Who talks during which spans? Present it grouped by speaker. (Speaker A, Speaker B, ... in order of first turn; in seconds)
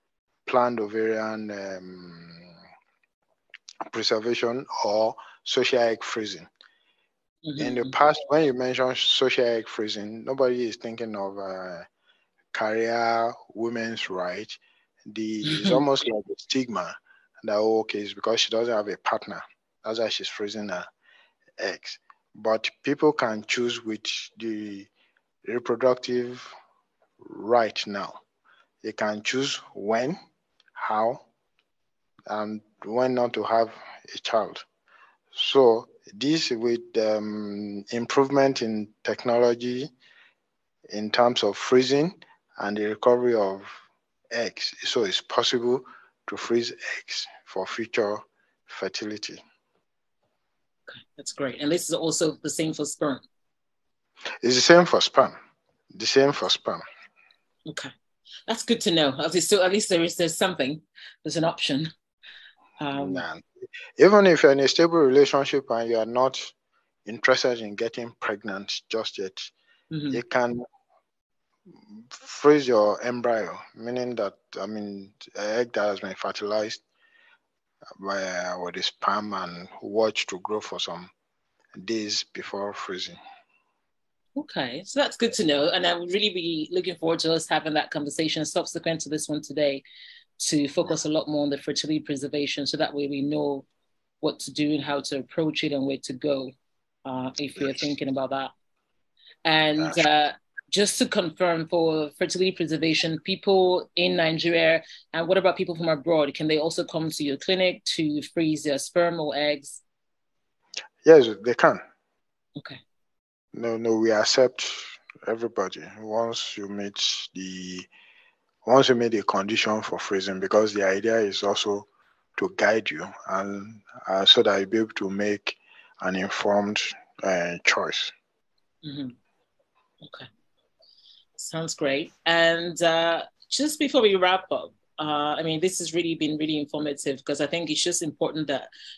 Speaker A: 0.5-2.5, 3.9-6.5, 7.6-11.8, 12.5-20.9, 21.6-24.9, 25.4-26.5, 27.2-28.2, 28.8-30.2, 30.7-31.2, 32.3-34.6, 35.3-39.9, 40.9-43.7, 44.3-49.4, 54.4-55.4, 55.9-56.8, 62.9-66.5, 67.0-69.5, 70.1-70.6, 71.9-76.8, 78.0-81.1, 81.7-83.2, 111.0-111.8, 113.5-117.9, 118.6-128.1
Speaker B: 7.5-7.9, 15.4-15.8, 50.9-53.2, 57.7-57.9, 58.5-61.9, 62.8-63.2, 69.9-70.2, 84.3-89.8, 90.4-93.7, 94.2-96.5, 97.0-98.5, 99.4-109.8, 128.8-129.2, 130.0-130.3, 131.4-138.7